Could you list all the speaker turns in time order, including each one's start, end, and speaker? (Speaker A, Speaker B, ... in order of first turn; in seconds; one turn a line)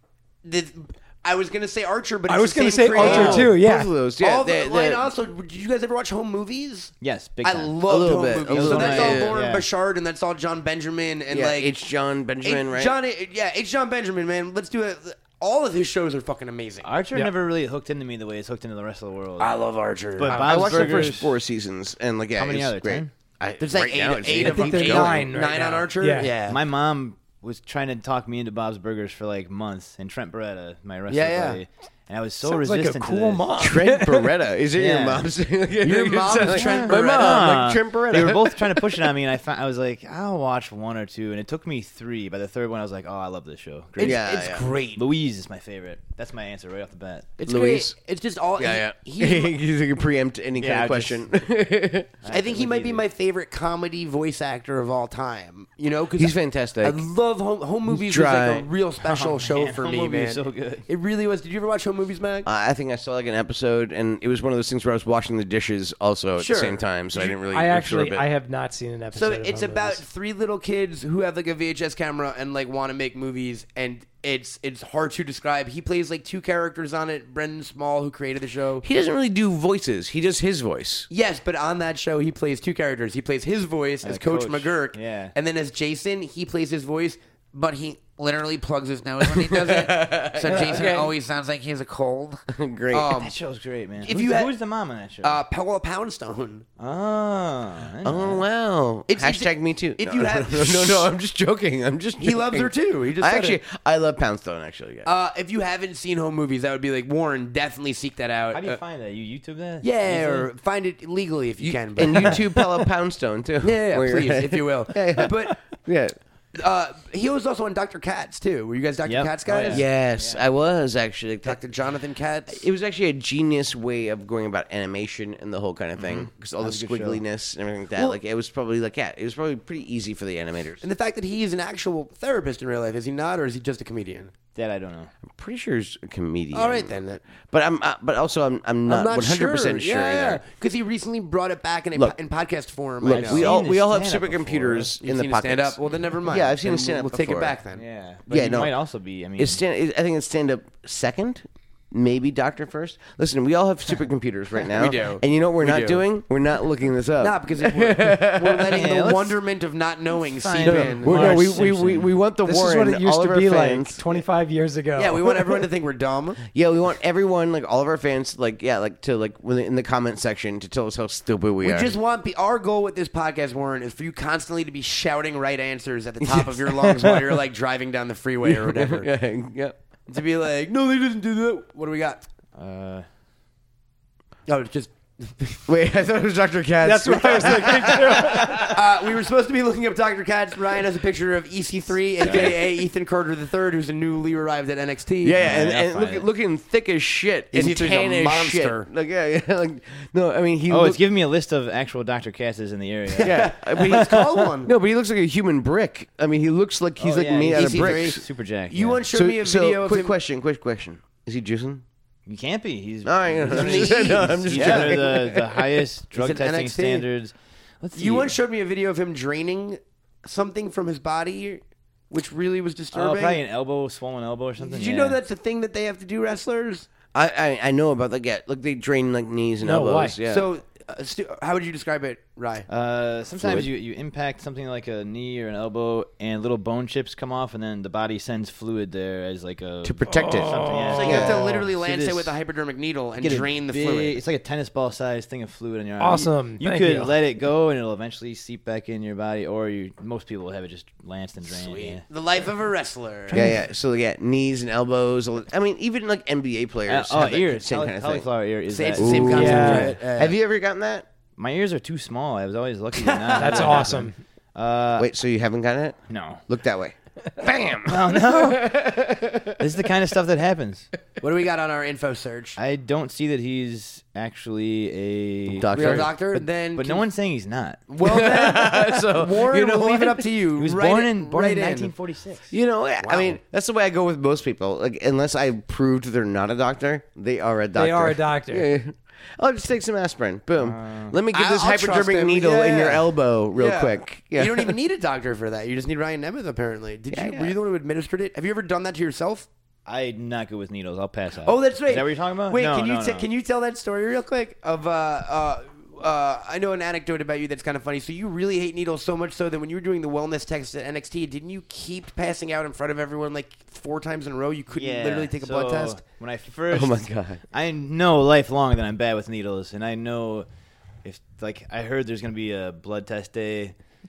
Speaker A: 0.4-3.5
Speaker B: 2.3-3.9
Speaker C: 3.0-5.1
Speaker D: 3.1-3.5
Speaker A: 4.2-11.7
Speaker D: 7.0-7.7
Speaker C: 7.9-9.4
Speaker D: 8.5-9.6
Speaker C: 11.3-13.0
Speaker A: 12.4-16.9
Speaker D: 16.8-19.5
Speaker A: 19.4-20.4
Speaker D: 20.2-21.4
Speaker C: 20.3-25.3
Speaker B: 20.3-21.1
Speaker D: 22.4-23.1
Speaker A: 23.6-26.6
Speaker B: 24.4-26.3
Speaker D: 24.9-25.4
Speaker D: 26.5-33.6
Speaker A: 31.1-31.6
Speaker B: 32.4-34.3
Speaker C: 33.6-38.7
Speaker D: 34.8-35.3
Speaker A: 35.9-38.3
Speaker D: 36.5-44.2
Speaker A: 44.0-45.0
Speaker C: 44.0-44.7
Speaker D: 45.0-47.3
Speaker A: 47.4-49.5
Speaker C: 47.5-48.0
Speaker C: 48.6-52.1
Speaker D: 50.6-51.4
Speaker D: 52.2-53.0
Speaker A: 52.3-62.5
Speaker C: 56.2-57.0
Speaker C: 57.9-58.7
Speaker D: 59.0-60.9
Speaker C: 62.5-68.3
Speaker A: 66.4-66.8
Speaker B: 67.2-70.0
Speaker A: 69.2-78.8
Speaker C: 78.8-81.1
Speaker A: 81.1-93.3
Speaker D: 84.0-85.3
Speaker C: 89.3-90.9
Speaker D: 90.5-91.1
Speaker C: 92.5-93.2
Speaker D: 93.2-95.4
Speaker A: 94.0-94.5
Speaker A: 95.2-96.7
Speaker D: 96.8-98.4
Speaker C: 98.0-105.1
Speaker A: 99.1-101.1
Speaker A: 102.2-103.6
Speaker A: 105.0-108.8
Speaker D: 108.5-110.5
Speaker A: 109.8-112.6
Speaker C: 111.6-116.2
Speaker A: 113.6-115.6
Speaker A: 116.6-119.8
Speaker D: 119.0-120.4
Speaker C: 119.7-121.6
Speaker A: 121.4-122.7
Speaker C: 122.5-130.8
Speaker D: 126.0-127.2
Speaker A: 130.8-134.3
Speaker D: 134.6-135.1
Speaker C: 135.2-140.4
Speaker A: 136.5-137.2
Speaker A: 138.9-143.5
Speaker C: 143.0-147.6
Speaker D: 143.1-144.9
Speaker A: 145.0-147.8
Speaker D: 147.7-149.6
Speaker C: 148.3-148.8
Speaker C: 149.4-158.8
Speaker A: 154.7-156.0
Speaker A: 157.2-161.6
Speaker D: 158.7-159.4
Speaker D: 160.2-162.1
Speaker C: 160.6-164.2
Speaker B: 162.4-165.3
Speaker A: 165.0-166.4
Speaker C: 166.5-171.9
Speaker A: 171.6-179.1
Speaker C: 178.4-179.8
Speaker A: 180.1-182.2
Speaker D: 182.6-183.1
Speaker A: 184.5-185.7
Speaker C: 185.7-188.8
Speaker B: 186.8-188.7
Speaker A: 188.4-195.4
Speaker D: 192.2-192.6
Speaker C: 192.2-192.6
Speaker C: 195.2-201.0
Speaker D: 195.4-196.2
Speaker A: 197.5-198.9
Speaker D: 200.7-203.8
Speaker A: 203.2-204.7
Speaker C: 203.2-208.2
Speaker D: 207.0-209.0
Speaker A: 207.5-210.1
Speaker C: 209.1-211.8
Speaker D: 212.3-218.3
Speaker C: 213.0-215.6
Speaker A: 213.5-215.4
Speaker A: 216.2-217.1
Speaker A: 218.0-223.4
Speaker D: 222.9-225.2
Speaker A: 224.6-226.9
Speaker C: 227.1-230.5
Speaker B: 229.6-230.2
Speaker A: 230.3-232.7
Speaker D: 232.7-242.3
Speaker C: 233.4-233.7
Speaker C: 239.8-241.6
Speaker B: 240.1-241.1
Speaker A: 240.9-244.2
Speaker D: 243.2-252.0
Speaker B: 246.0-247.1
Speaker A: 251.4-253.5
Speaker C: 253.3-258.3
Speaker D: 256.9-260.0
Speaker A: 258.7-260.4
Speaker C: 258.9-261.1
Speaker B: 259.3-259.9
Speaker D: 261.4-265.1
Speaker A: 263.1-263.8
Speaker B: 263.4-264.2
Speaker C: 265.0-269.6
Speaker D: 266.1-266.4
Speaker D: 267.9-269.1
Speaker D: 269.6-270.9
Speaker A: 271.2-272.6
Speaker D: 272.6-277.8
Speaker C: 275.5-276.1
Speaker A: 275.7-277.1
Speaker A: 277.9-281.9
Speaker C: 278.0-280.2
Speaker D: 280.6-282.5
Speaker C: 282.5-294.8
Speaker A: 283.0-283.4
Speaker B: 287.8-288.7
Speaker D: 290.6-291.2
Speaker A: 291.3-299.5
Speaker C: 297.1-297.5
Speaker D: 299.9-303.3
Speaker A: 301.4-316.0
Speaker D: 314.7-320.5
Speaker C: 316.7-317.4
Speaker D: 321.0-323.7